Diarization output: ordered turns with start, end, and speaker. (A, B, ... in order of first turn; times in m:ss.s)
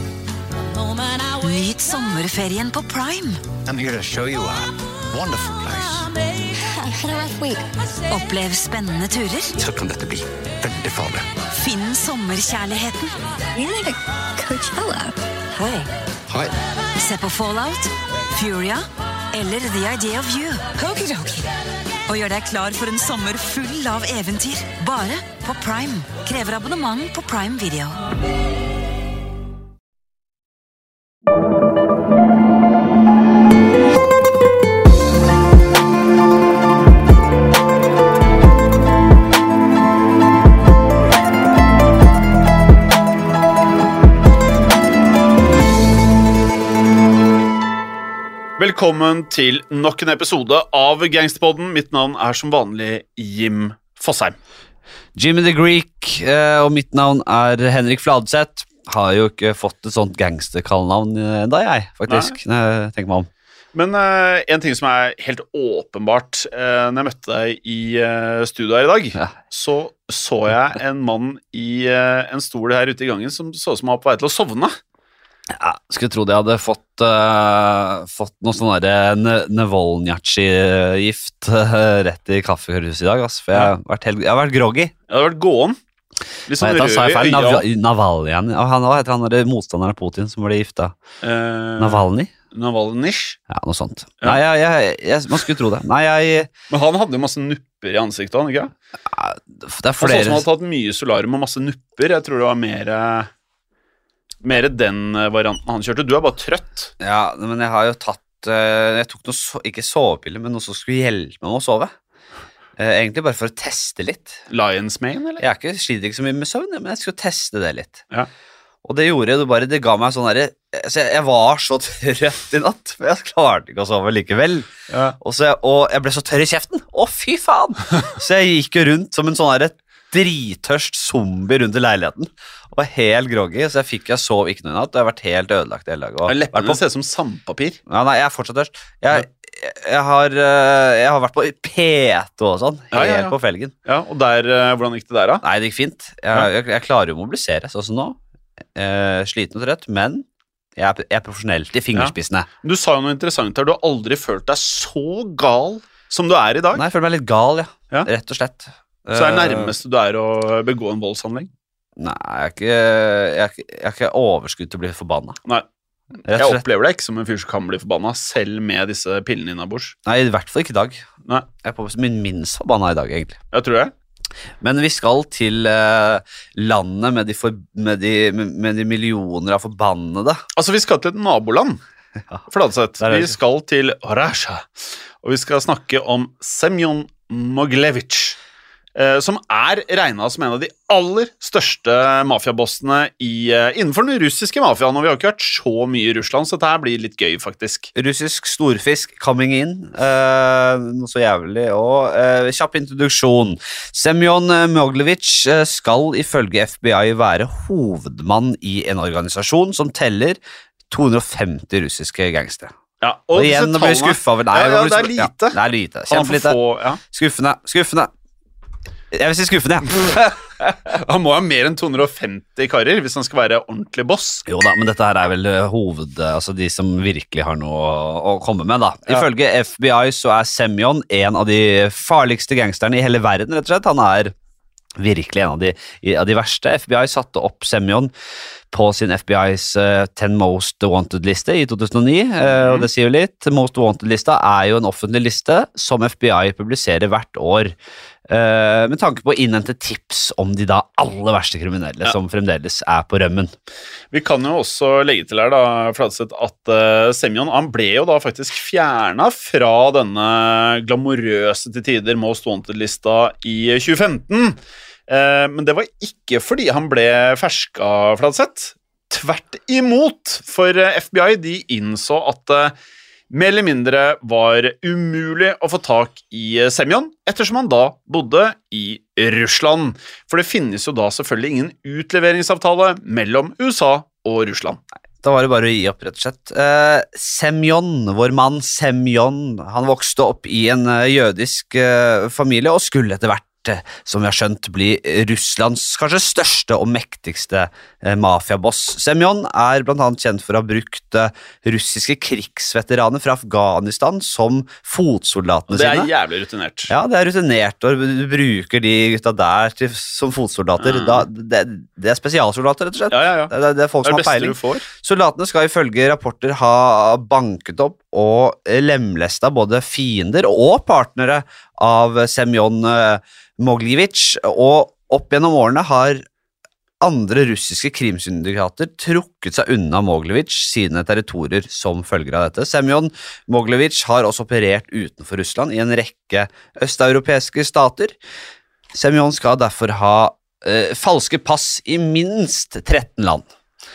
0:01.4-0:03.4 A
0:03.7-0:06.1 B
0:06.8-0:07.6 C
0:08.1-0:09.5 A
0:09.6-0:11.3 B
0:11.5-0:13.3 A
0:13.6-0:15.2 C
0:15.5-0:15.9 A
0:16.3-0:16.5 B
0:17.0-0:21.5 A
0:22.1-0:28.0 A
0:48.6-0:54.4 D
0:55.2-1:03.3 E
1:02.1-1:02.4 D
1:03.7-1:14.8 D
1:15.5-1:24.9 E
1:25.1-1:25.8 D
1:26.5-1:27.7 D
1:26.6-1:31.0 E
1:31.2-1:33.4 D
1:31.8-1:32.3 E
1:33.5-1:36.5 E
1:36.7-1:38.7 D
1:39.1-1:40.4 E
1:40.0-1:43.3 D
1:44.4-1:46.9 D
1:47.0-1:51.9 E
1:52.8-1:54.4 E
1:54.5-1:55.4 D
1:55.4-1:58.0 E
1:58.8-2:16.8 E
2:04.9-2:05.2 D
2:16.3-2:17.8 D
2:17.9-2:23.7 E
2:22.9-2:25.4 D
2:25.4-2:28.2 E
2:28.8-2:30.3 E
2:30.8-2:32.5 E
2:32.0-2:36.8 D
2:36.7-2:39.7 E
2:39.1-2:41.5 D
2:42.0-2:45.4 E
2:46.3-2:46.6 E
2:46.3-2:50.0 D
2:50.1-2:51.0 E
2:51.6-2:53.4 E
2:53.5-2:53.9 D
2:54.6-3:00.4 E
3:00.6-3:01.8 D
3:02.5-3:04.7 D
3:03.0-3:03.4 E
3:05.2-3:08.4 D
3:09.0-3:17.9 D
3:18.0-3:30.4 E
3:30.9-3:32.7 E
3:33.0-3:37.0 D
3:33.3-3:36.6 E
3:37.1-3:38.1 E
3:39.1-3:40.4 E
3:40.9-3:44.5 D
3:44.5-3:54.3 E
3:55.0-3:58.1 E
3:58.7-4:07.8 E
4:02.5-4:02.9 D
4:08.3-4:13.5 E
4:14.1-4:32.7 D
4:33.3-4:44.8 D
4:45.2-5:06.1 E
5:05.7-5:06.9 D
5:06.9-5:26.2 E
5:10.8-5:11.3 D
5:13.1-5:14.9 D
5:27.0-5:38.2 E
5:38.9-5:43.5 E